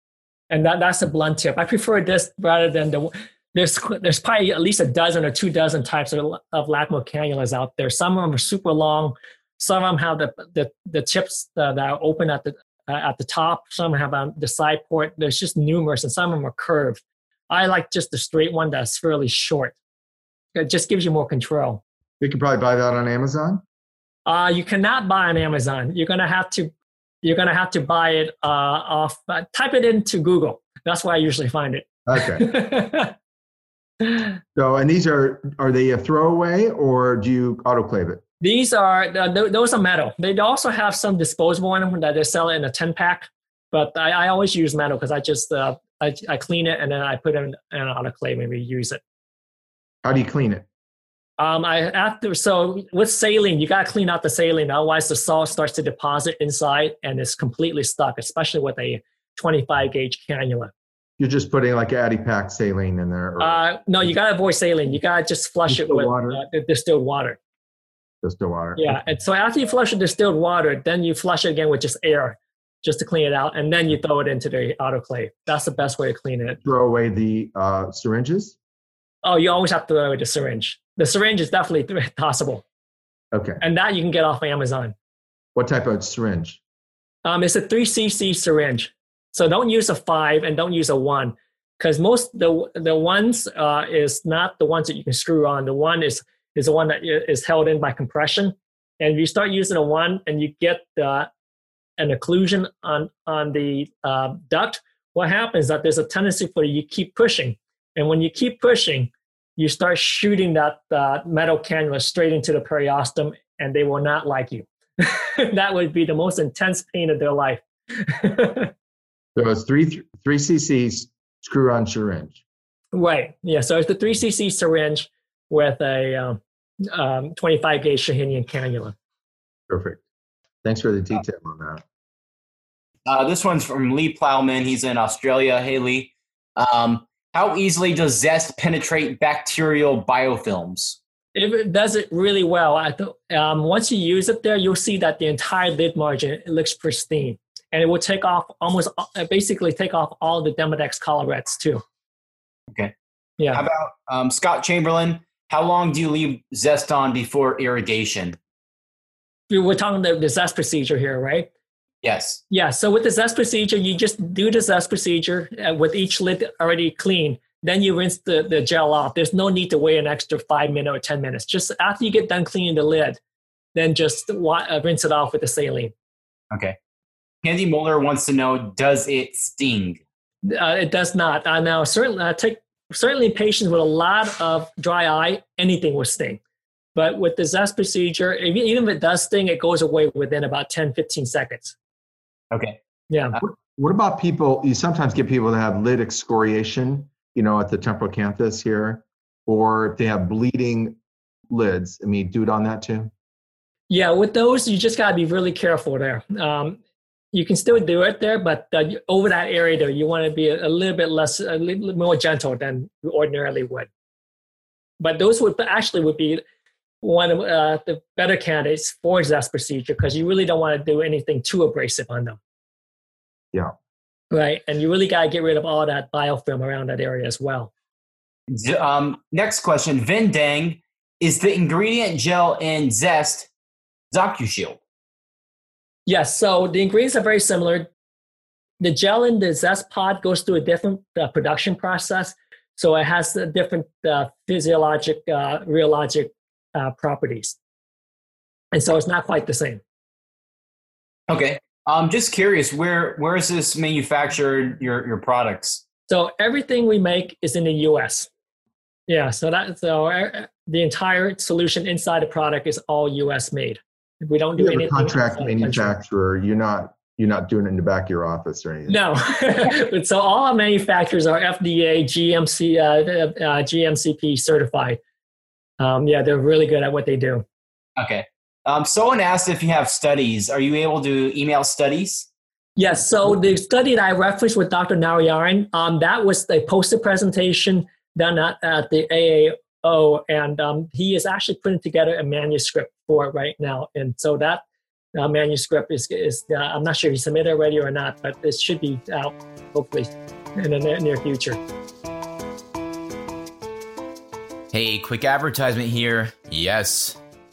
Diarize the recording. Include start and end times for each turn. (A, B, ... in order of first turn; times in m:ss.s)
0:00.5-0:19.8 A
0:20.5-0:21.8 A
0:22.2-0:23.6 B
0:24.2-0:26.7 A
0:27.2-0:33.1 A
0:32.1-0:32.4 B
0:34.5-0:38.2 B
0:38.4-0:49.0 A
0:50.0-0:50.6 B
0:51.4-1:00.7 A
1:01.2-1:04.1 B
1:03.4-1:07.4 A
1:05.7-1:06.4 B
1:08.2-1:09.0 B
1:08.8-1:16.6 A
1:16.6-1:18.6 B
1:19.2-1:22.6 A
1:23.3-1:23.6 B
1:23.6-1:24.9 A
1:25.5-1:26.6 B
1:27.2-1:41.3 A
1:42.0-1:58.7 A
1:59.3-2:02.4 B
2:02.9-2:08.9 A
2:09.7-2:10.0 B
2:10.6-2:11.8 B
2:13.0-2:21.0 C
2:21.3-2:31.8 A
2:33.4-2:33.6 A
2:33.5-2:38.4 C
2:39.5-2:41.5 A
2:42.0-2:42.4 C
2:42.5-2:53.2 A
2:53.7-2:55.9 A
2:56.5-2:56.8 C
2:57.4-3:00.0 C
3:00.4-3:06.4 A
3:06.9-3:11.7 A
3:12.5-3:12.8 C
3:13.1-3:13.4 A
3:13.4-3:21.0 B
3:21.5-3:23.1 B
3:23.9-3:26.8 A
3:27.3-3:33.9 A
3:35.0-3:36.4 A
3:37.0-3:42.4 A
3:44.3-3:47.7 A
3:48.5-3:53.5 C
3:54.1-3:54.8 C
3:56.0-3:57.9 A
3:58.8-4:07.6 A
4:08.7-4:09.8 A
4:11.3-4:15.8 C
4:16.1-4:18.3 A
4:19.1-4:25.9 A
4:24.6-4:29.0 B
4:28.9-4:35.0 A
4:35.8-4:37.4 A
4:38.0-4:42.3 C
4:42.8-4:54.6 A
4:55.2-5:01.6 A
5:04.7-5:07.2 C